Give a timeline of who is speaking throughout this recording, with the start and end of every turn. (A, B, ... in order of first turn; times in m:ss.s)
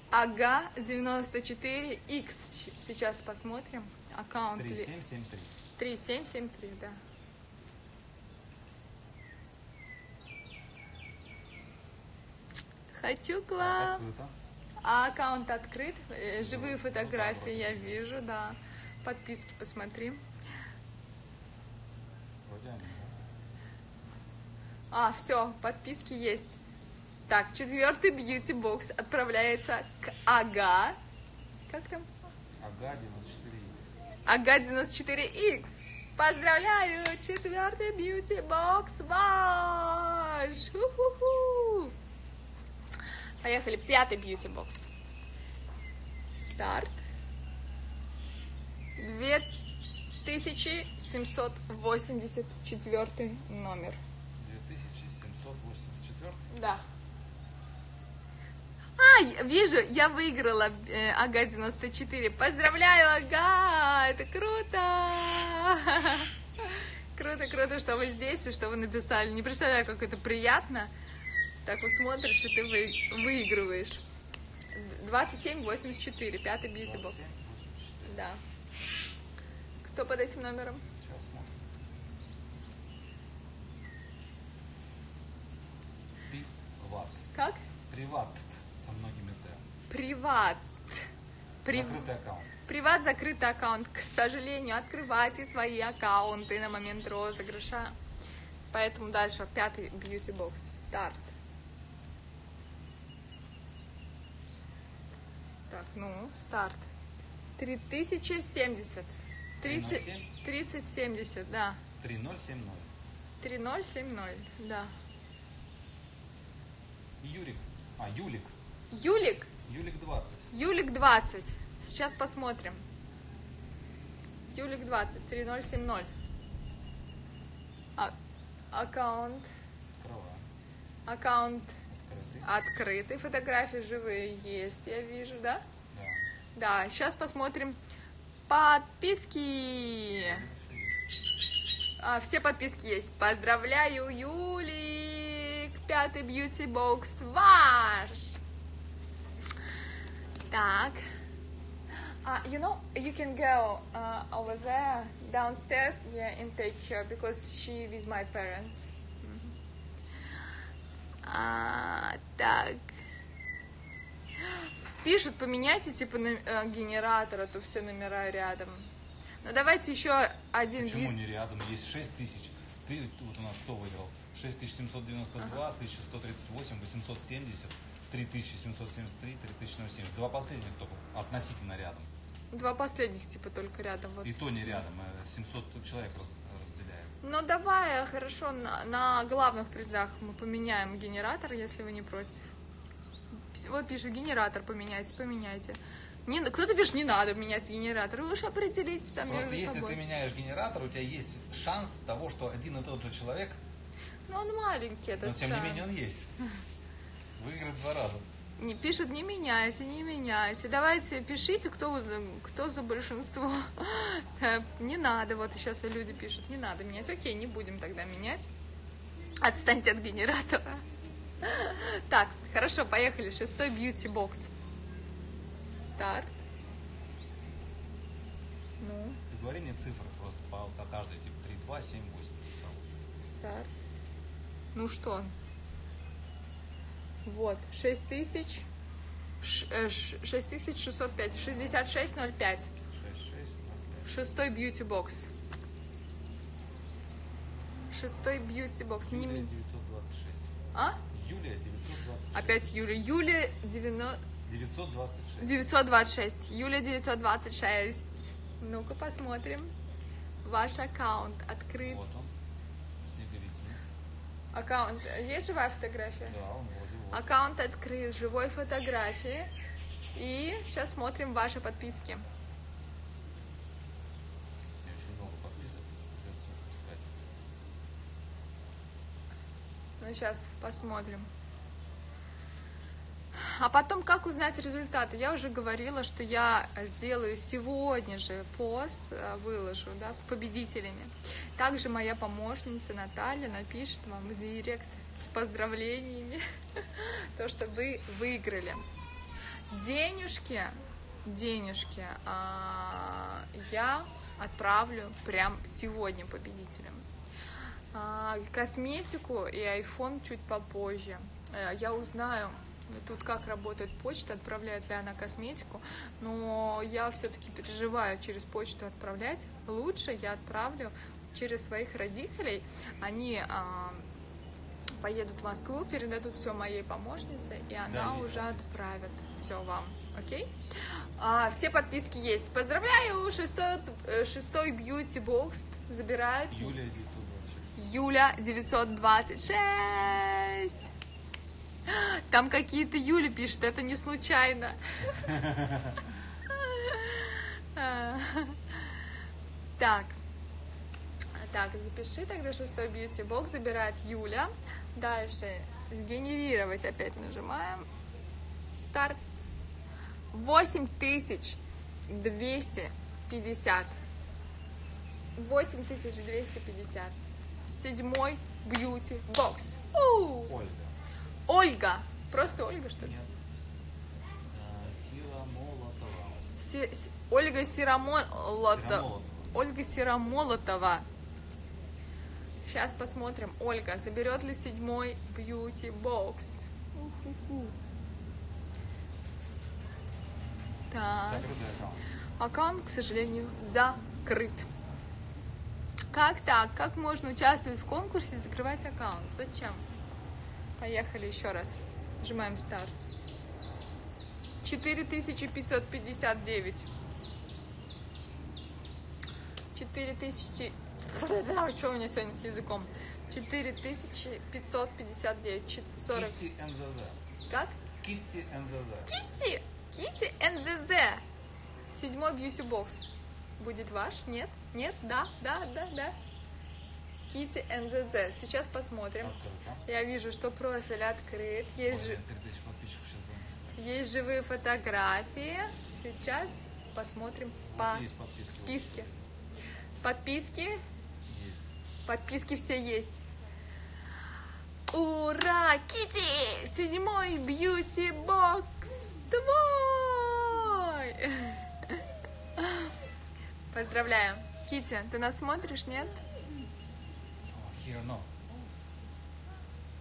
0:00.1-0:04.9 A
0:04.6-0:05.6 B
0:05.8-0:07.0 A
0:12.9-0:14.0 A
0:13.6-0:14.4 B
0:14.8-0:20.2 A
0:16.4-0:18.0 B
0:22.4-0:23.3 B
0:24.9-0:26.5 A
0:27.3-0:31.0 A
0:31.7-0:32.1 A
0:32.6-0:33.9 B
0:34.3-0:41.9 A
0:43.4-0:44.9 A
0:46.4-0:47.0 A
0:49.0-0:49.5 A
0:50.2-0:54.0 A
0:54.4-0:56.4 B
0:56.5-0:56.8 A
0:59.0-1:10.9 A
1:11.6-1:14.0 A
1:14.7-1:17.2 A
1:16.8-1:18.2 B
1:18.1-1:18.4 A
1:19.8-1:20.8 A
1:21.0-1:21.6 B
1:26.3-1:27.2 B
1:27.3-1:27.6 A
1:27.9-1:29.6 B
1:29.9-1:31.1 A
1:31.6-1:32.1 A
1:31.7-1:32.5 B
1:32.7-1:37.9 A
1:38.7-1:41.3 A
1:45.7-1:46.8 A
1:47.6-1:51.8 A
1:49.6-1:50.3 B
1:52.0-1:52.9 B
1:53.4-1:54.9 A
1:57.2-1:58.5 B
1:58.9-1:59.5 A
1:59.7-2:00.5 B
2:00.5-2:02.8 A
2:04.5-2:06.1 A
2:08.7-2:09.5 A
2:10.0-2:10.5 B
2:11.1-2:11.8 A
2:11.9-2:12.5 B
2:12.4-2:15.6 A
2:15.9-2:16.2 B
2:16.6-2:17.8 A
2:18.5-2:20.4 A
2:20.2-2:21.0 B
2:22.0-2:28.4 A
2:30.5-2:31.0 A
2:32.2-2:39.5 A
2:41.2-2:42.8 A
2:45.0-2:48.9 A
2:49.4-2:51.2 A
2:50.8-3:02.1 B
3:02.5-3:04.8 A
3:04.2-3:07.2 B
3:07.2-3:12.4 A
3:13.5-3:20.0 A
3:19.3-3:23.6 B
3:24.3-3:25.9 A
3:25.2-3:26.3 B
3:27.4-3:28.2 B
3:28.6-3:38.5 A
3:39.4-3:40.8 A
3:41.4-3:44.5 A
3:46.0-3:46.3 A
3:48.8-3:49.2 A
3:49.3-3:52.9 B
3:53.2-3:53.7 A
3:54.7-3:55.3 A
3:57.2-3:58.7 A
3:59.4-4:02.7 A
4:02.9-4:04.1 B
4:04.1-4:05.3 A
4:07.9-4:09.5 A
4:09.1-4:10.5 B
4:10.7-4:11.0 A
4:11.1-4:12.7 B
4:12.3-4:14.2 A
4:14.4-4:15.7 B
4:15.4-4:19.7 A
4:20.4-4:22.0 A
4:21.8-4:22.3 B
4:23.0-4:23.8 B
4:24.5-4:26.4 A
4:26.3-4:27.3 B
4:27.1-4:29.5 A
4:30.2-4:32.2 A
4:34.8-4:37.2 B
4:40.0-4:41.3 A
4:43.4-4:58.8 A
4:59.7-5:07.0 A
5:07.9-5:24.0 A
5:25.0-5:30.5 A
5:27.9-5:28.6 B
5:31.2-5:36.8 A
5:36.5-5:37.8 B
5:37.8-5:40.8 A
5:41.9-5:45.1 A
5:45.0-5:46.1 B
5:46.5-5:48.8 A
5:49.8-5:50.2 A
5:51.4-5:57.9 A
5:58.7-5:59.2 A
6:00.3-6:04.0 A
6:05.4-6:10.6 A
6:10.5-6:11.0 B
6:11.5-6:13.1 A
6:12.4-6:13.3 B
6:14.5-6:16.5 B
6:16.6-6:21.0 A
6:18.7-6:19.5 B
6:22.7-6:27.7 A
6:30.9-6:31.5 A
6:31.2-6:32.0 B
6:32.4-6:34.7 A
6:36.1-6:39.8 A
6:40.8-6:42.9 A
6:44.6-6:46.9 A
6:49.8-6:56.4 A
6:56.1-6:57.2 B
6:57.5-6:57.8 A
6:58.0-6:59.1 B
6:59.1-7:01.2 A
7:01.9-7:03.1 A
7:03.6-7:06.2 A
7:07.3-7:12.2 A
7:09.2-7:09.9 B
7:11.9-7:13.8 B
7:13.8-7:18.1 A
7:17.7-7:19.3 B
7:18.7-7:19.1 A
7:20.0-7:20.8 A
7:21.3-7:21.7 B
7:22.1-7:23.2 A
7:24.9-7:32.0 A
7:32.6-7:32.9 A
7:33.7-7:36.2 A
7:37.4-7:38.3 B